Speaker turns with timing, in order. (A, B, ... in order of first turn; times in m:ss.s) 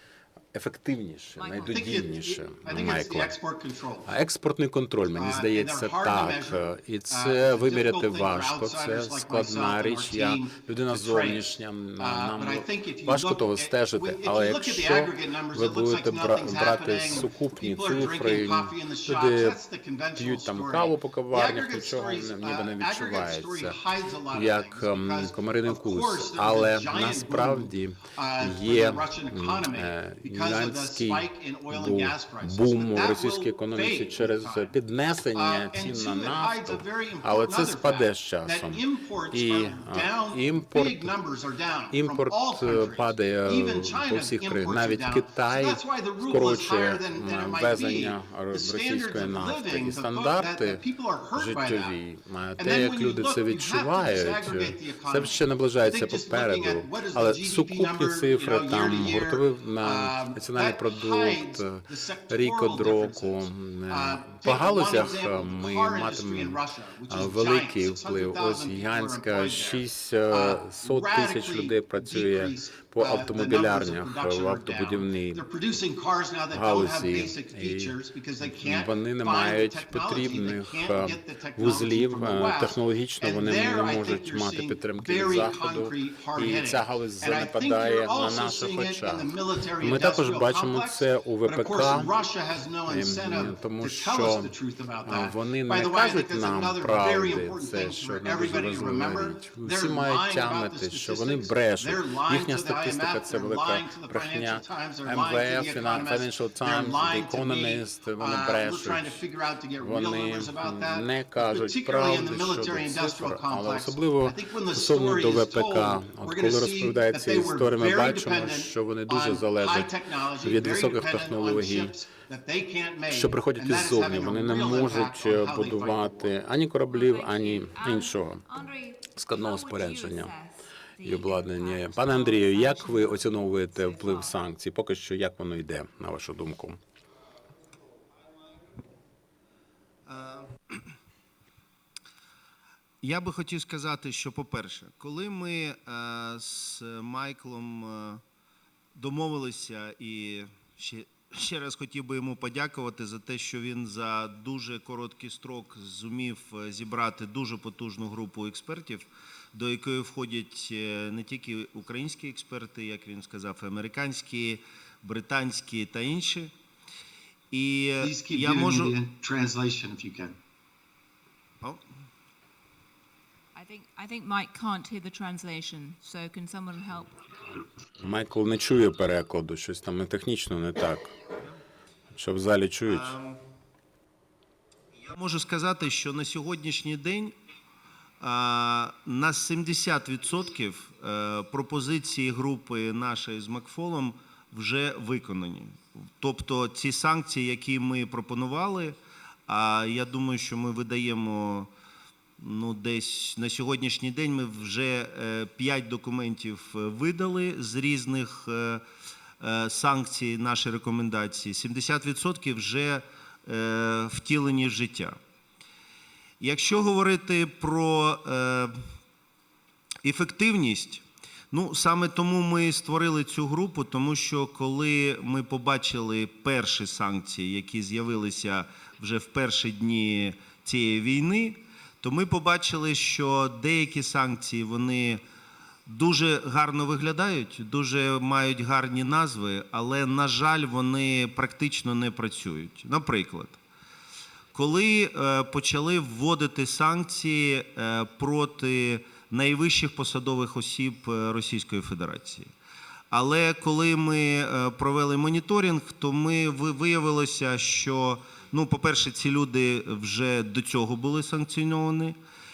0:00.5-0:03.4 A
0:01.4-0:02.0 B
0:01.7-0:04.1 C
0:04.0-0:19.6 A
0:05.1-0:06.6 C
0:07.1-0:11.4 C
0:12.0-0:34.7 C
0:20.2-0:23.8 A
0:24.3-0:41.1 A
0:35.3-0:51.9 C
0:41.9-0:50.8 A
0:51.4-1:15.4 A
0:52.6-2:06.3 C
1:16.5-1:32.1 A
1:32.9-1:49.2 A
1:49.8-1:59.9 A
2:00.4-2:01.9 A
2:03.1-2:08.4 A
2:06.9-2:14.4 B
2:09.2-2:10.3 A
2:11.0-2:16.8 A
2:20.1-2:20.8 D
2:23.0-2:28.2 D
2:28.9-2:46.5 D
2:47.5-2:49.0 D
2:48.0-2:50.4 C
2:53.5-2:57.1 B
2:58.0-3:01.1 A
3:02.1-3:03.2 A
3:02.9-3:03.4 D
3:05.0-3:07.3 D
3:08.2-3:19.0 D
3:19.5-3:21.7 D
3:22.4-3:28.8 D
3:29.4-3:35.2 D
3:36.4-3:38.8 D
3:40.0-3:55.2 D
3:55.8-4:03.6 D
4:04.5-4:12.5 D
4:13.1-4:22.2 D